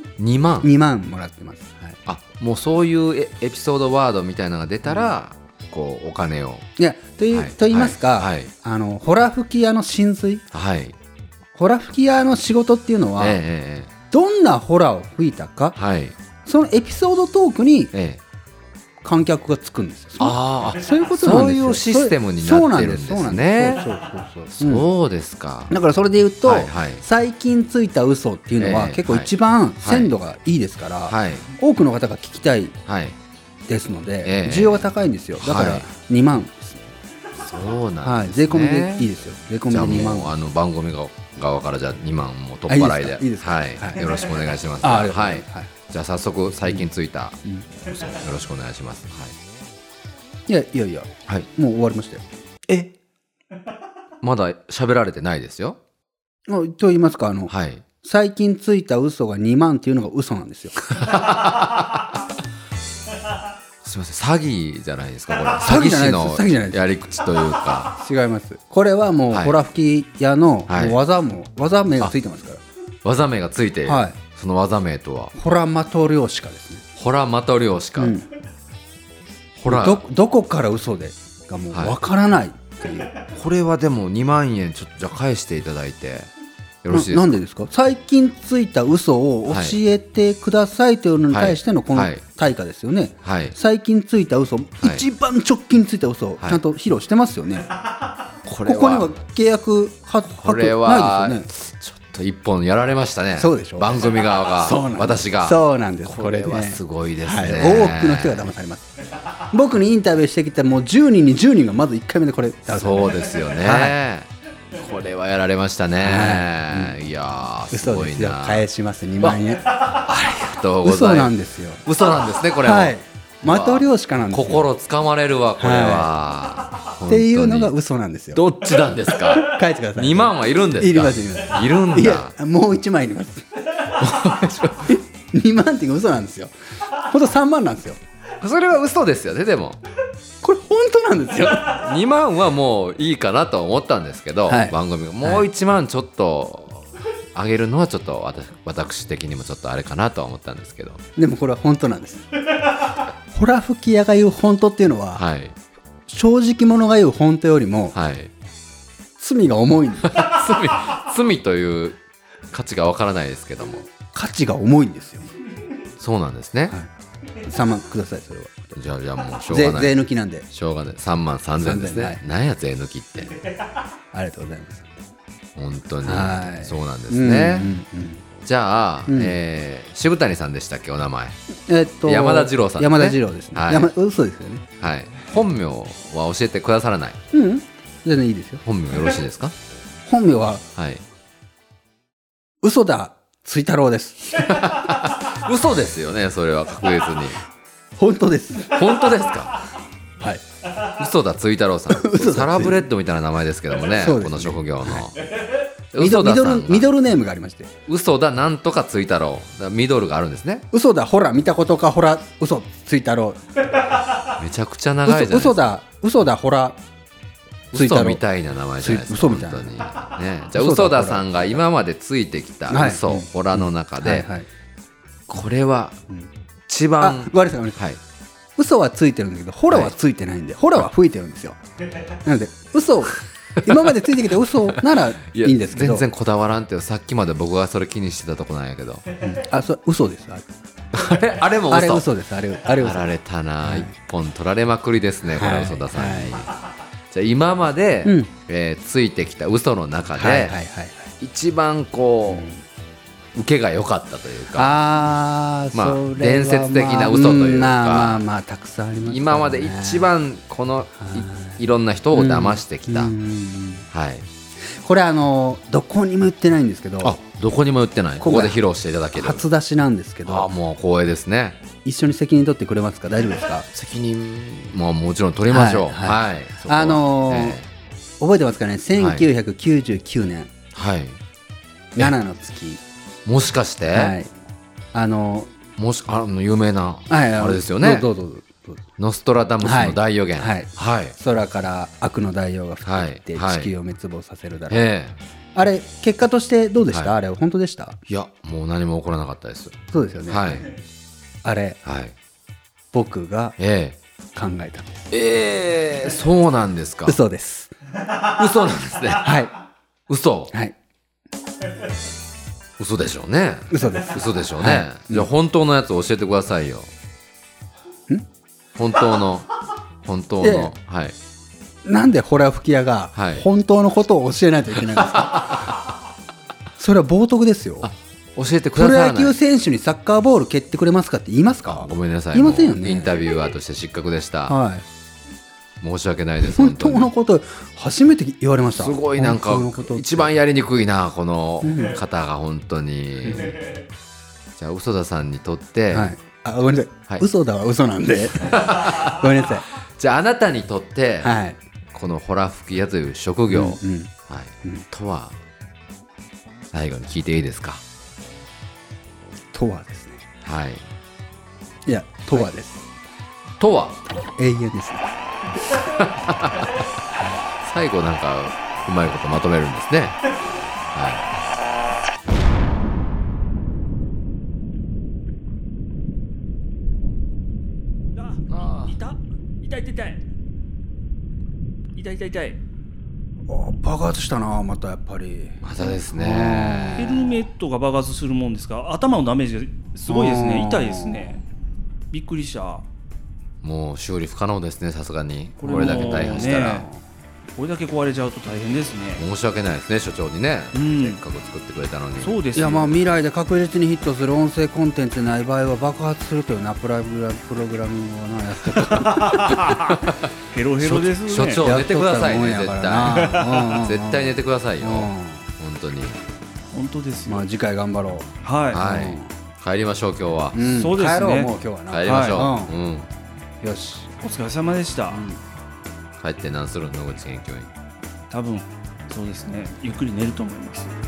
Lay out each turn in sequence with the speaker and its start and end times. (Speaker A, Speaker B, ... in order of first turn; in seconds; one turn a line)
Speaker A: 0.2-0.7
Speaker B: 0.6-2.0
Speaker A: 2.1-6.7
Speaker B: 4.9-5.1
Speaker B: 6.8-10.4
Speaker A: 7.3-8.5
Speaker A: 10.5-10.9
Speaker B: 11.6-13.4
Speaker A: 13.2-13.9
Speaker B: 14.1-15.8
Speaker A: 15.8-16.1
Speaker B: 16.4-17.9
Speaker A: 17.9-18.2
Speaker B: 19.0-24.9
Speaker A: 20.2-23.9
Speaker A: 24.6-25.7
Speaker B: 25.7-32.8
Speaker A: 26.4-27.0
Speaker A: 28.6-30.2
Speaker A: 31.1-31.5
Speaker A: 32.9-33.2
Speaker B: 33.7-36.8
Speaker A: 34.2-35.9
Speaker A: 37.4-39.1
Speaker B: 38.0-40.3
Speaker A: 39.7-49.3
Speaker B: 42.7-44.1
Speaker B: 44.8-45.7
Speaker B: 50.5-52.2
Speaker A: 54.2-55.8
Speaker B: 56.5-60.8
Speaker A: 57.5-57.8
Speaker A: 61.0-62.0
Speaker A: 63.8-67.9
Speaker B: 65.6-66.8
Speaker B: 67.9-72.6
Speaker A: 69.3-69.5
Speaker A: 70.7-71.0
Speaker A: 73.0-75.3
Speaker B: 73.8-74.2
Speaker B: 75.3-76.8
Speaker A: 77.0-78.2
Speaker B: 78.0-78.3
Speaker A: 79.6-80.0
Speaker B: 79.7-83.1
Speaker A: 81.7-82.0
Speaker A: 83.3-86.3
Speaker A: 86.8-87.4
Speaker B: 86.9-97.7
Speaker A: 89.5-89.8
Speaker A: 91.3-92.2
Speaker A: 93.2-93.6
Speaker A: 98.5-99.1
Speaker B: 98.6-101.5
Speaker A: 100.3-108.5
Speaker B: 103.4-114.0
Speaker A: 112.7-118.7
Speaker B: 116.0-117.0
Speaker B: 117.7-121.8
Speaker A: 119.2-121.3
Speaker A: 121.8-127.7
Speaker B: 122.6-124.7
Speaker B: 125.6-126.1
Speaker B: 127.1-128.4
Speaker A: 128.3-132.3
Speaker B: 129.1-133.5
Speaker A: 134.0-135.0
Speaker B: 134.8-138.0
Speaker A: 138.4-139.8
Speaker B: 140.4-141.9
Speaker A: 141.5-151.0
Speaker B: 144.5-145.5
Speaker B: 151.2-152.3
Speaker B: 153.3-155.2
Speaker A: 155.2-155.6
Speaker B: 156.1-158.0
Speaker A: 157.9-158.3
Speaker B: 159.2-160.2
Speaker A: 160.0-162.0
Speaker A: 162.5-163.9
Speaker B: 164.0-165.3
Speaker A: 166.0-166.8
Speaker B: 167.4-168.8
Speaker A: 168.8-173.4
Speaker B: 169.5-170.5
Speaker B: 171.6-172.2
Speaker B: 174.1-174.9
Speaker A: 175.6-177.7
Speaker B: 176.0-178.3
Speaker A: 178.4-181.3
Speaker B: 179.1-179.3
Speaker B: 181.7-184.7
Speaker A: 182.0-183.9
Speaker A: 184.8-187.2
Speaker B: 187.3-188.6
Speaker A: 188.6-189.6
Speaker B: 190.1-190.7
Speaker A: 190.8-191.0
Speaker B: 192.6-194.6
Speaker A: 194.3-197.4
Speaker B: 198.0-198.8
Speaker A: 198.7-199.7
Speaker A: 200.9-205.2
Speaker B: 201.9-202.8
Speaker B: 203.9-205.0
Speaker A: 205.9-206.9
Speaker B: 206.0-207.7
Speaker A: 207.9-210.7
Speaker B: 210.7-213.4
Speaker A: 214.2-215.6
Speaker B: 215.1-216.8
Speaker A: 217.7-224.3
Speaker B: 217.7-218.2
Speaker B: 218.8-219.8
Speaker B: 220.5-221.6
Speaker B: 222.7-224.5
Speaker A: 225.3-226.0
Speaker A: 226.7-228.0
Speaker B: 227.0-227.8
Speaker B: 228.6-231.6
Speaker A: 229.7-229.9
Speaker B: 232.2-236.1
Speaker A: 234.7-239.1
Speaker B: 239.2-240.5
Speaker A: 240.9-242.1
Speaker B: 241.7-243.1
Speaker A: 242.8-246.5
Speaker B: 243.6-243.9
Speaker B: 245.3-246.5
Speaker A: 247.1-250.6
Speaker B: 248.0-248.3
Speaker B: 250.2-251.1
Speaker A: 251.2-252.5
Speaker B: 252.3-252.6
Speaker A: 253.3-254.8
Speaker B: 254.5-260.1
Speaker A: 255.7-258.2
Speaker A: 259.0-263.1
Speaker B: 261.0-261.6
Speaker B: 262.1-263.9
Speaker A: 263.9-264.3
Speaker B: 264.8-267.2
Speaker A: 267.0-269.5
Speaker B: 268.2-268.6
Speaker B: 269.1-270.5
Speaker A: 270.3-271.6
Speaker B: 271.8-273.7
Speaker A: 273.7-277.7
Speaker B: 275.5-277.6
Speaker B: 278.2-280.5
Speaker A: 279.0-279.3
Speaker A: 280.7-281.2
Speaker B: 281.9-282.8
Speaker A: 283.2-284.2
Speaker B: 283.9-284.3
Speaker B: 284.9-285.5
Speaker A: 285.8-288.1
Speaker B: 287.1-288.8
Speaker A: 289.0-291.1
Speaker B: 289.6-294.8
Speaker A: 292.8-293.7
Speaker A: 294.7-295.2
Speaker B: 295.6-298.0
Speaker A: 298.1-299.8
Speaker B: 299.9-300.6
Speaker A: 300.3-300.7
Speaker B: 301.4-301.8
Speaker A: 301.8-302.1
Speaker B: 302.9-303.6
Speaker A: 303.6-304.0
Speaker B: 304.4-304.9
Speaker A: 305.1-307.2
Speaker B: 307.1-307.7
Speaker A: 308.1-309.4
Speaker B: 309.2-309.6
Speaker A: 310.1-310.5
Speaker A: 312.8-316.9
Speaker B: 313.7-315.3
Speaker A: 318.8-321.2
Speaker B: 320.4-320.7
Speaker B: 321.8-325.7
Speaker A: 323.1-323.4
Speaker A: 325.1-325.7
Speaker B: 326.8-327.9
Speaker A: 327.8-329.4
Speaker B: 328.8-333.1
Speaker A: 331.6-334.6
Speaker B: 334.5-334.8
Speaker A: 335.8-337.1
Speaker B: 336.4-340.3
Speaker A: 338.7-343.6
Speaker B: 341.6-342.0
Speaker B: 343.2-343.6
Speaker A: 344.6-346.1
Speaker B: 345.9-349.7
Speaker A: 348.3-351.4
Speaker B: 351.2-351.6
Speaker A: 351.9-355.4
Speaker B: 353.5-354.1
Speaker A: 356.7-357.8
Speaker B: 359.5-360.2
Speaker A: 360.4-360.9
Speaker B: 361.9-362.8
Speaker A: 363.6-364.0
Speaker B: 364.2-365.1
Speaker A: 365.8-366.7
Speaker A: 367.6-370.2
Speaker A: 370.9-371.3
Speaker C: 378.1-380.2
Speaker A: 378.5-379.0
Speaker C: 381.9-382.6
Speaker B: 383.5-387.4
Speaker A: 385.6-387.0
Speaker C: 387.0-391.4
Speaker B: 390.1-391.4
Speaker C: 392.1-392.9
Speaker A: 393.6-396.9
Speaker C: 395.6-396.9
Speaker B: 395.6-397.0
Speaker C: 397.6-399.2
Speaker A: 399.2-402.4
Speaker C: 400.7-401.2
Speaker C: 402.2-403.0
Speaker B: 402.6-409.7
Speaker C: 409.1-410.0
Speaker A: 409.9-410.3
Speaker C: 410.5-411.6
Speaker A: 410.8-416.2
Speaker B: 411.6-415.5
Speaker C: 416.7-417.4
Speaker B: 417.3-419.3
Speaker C: 418.4-418.9
Speaker A: 418.7-420.6
Speaker B: 420.5-422.8
Speaker C: 420.7-421.5
Speaker A: 421.9-423.1
Speaker C: 422.1-422.5
Speaker B: 423.6-424.1
Speaker C: 424.2-425.2
Speaker B: 425.1-425.4
Speaker A: 426.2-427.7
Speaker C: 428.3-430.9